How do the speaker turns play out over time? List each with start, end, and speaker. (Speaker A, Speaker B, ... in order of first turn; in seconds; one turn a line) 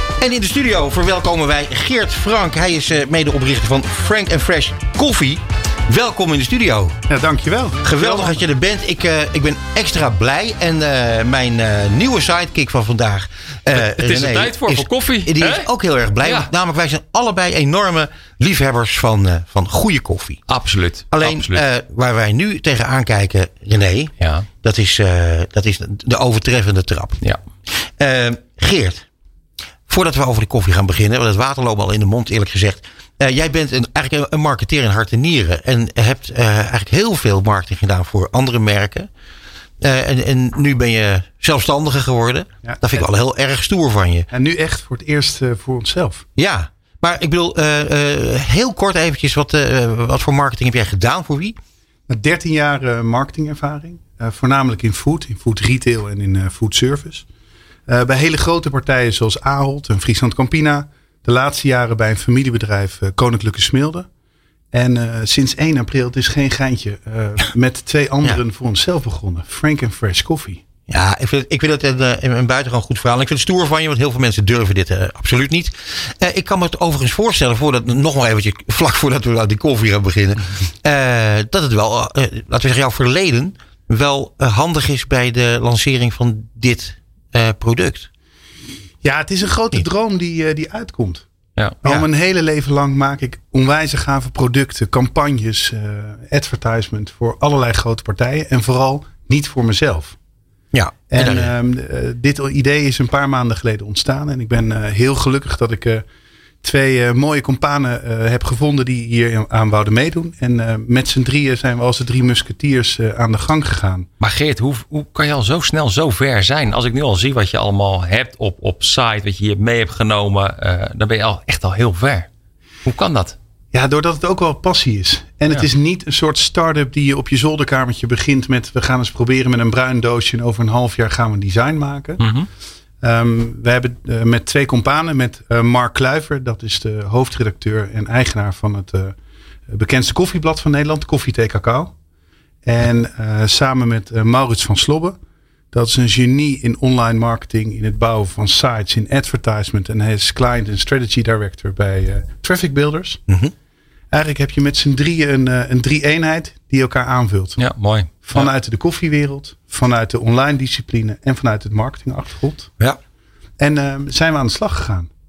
Speaker A: 0.2-7.0
Speaker B: 7.1-8.4
Speaker A: 7.8-20.4
Speaker C: 13.7-15.7
Speaker C: 16.2-16.5
Speaker C: 20.5-21.6
Speaker A: 21.1-27.2
Speaker C: 24.2-24.4
Speaker A: 28.0-29.1
Speaker A: 29.9-39.1
Speaker A: 39.8-44.3
Speaker B: 42.6-43.0
Speaker B: 44.3-46.2
Speaker A: 46.4-51.6
Speaker B: 52.1-57.2
Speaker B: 57.9-64.1
Speaker B: 64.7-70.6
Speaker A: 70.9-88.1
Speaker B: 89.0-91.2
Speaker B: 91.8-100.2
Speaker A: 100.7-101.5
Speaker B: 101.1-106.0
Speaker B: 106.6-114.1
Speaker C: 114.2-122.3
Speaker C: 122.8-123.3
Speaker B: 123.7-132.2
Speaker C: 132.2-132.5
Speaker B: 133.0-139.1
Speaker B: 139.7-141.9
Speaker B: 142.6-145.2
Speaker B: 145.7-153.2
Speaker A: 153.3-153.5
Speaker B: 154.1-157.6
Speaker C: 157.6-158.5
Speaker B: 158.2-162.7
Speaker B: 163.6-165.1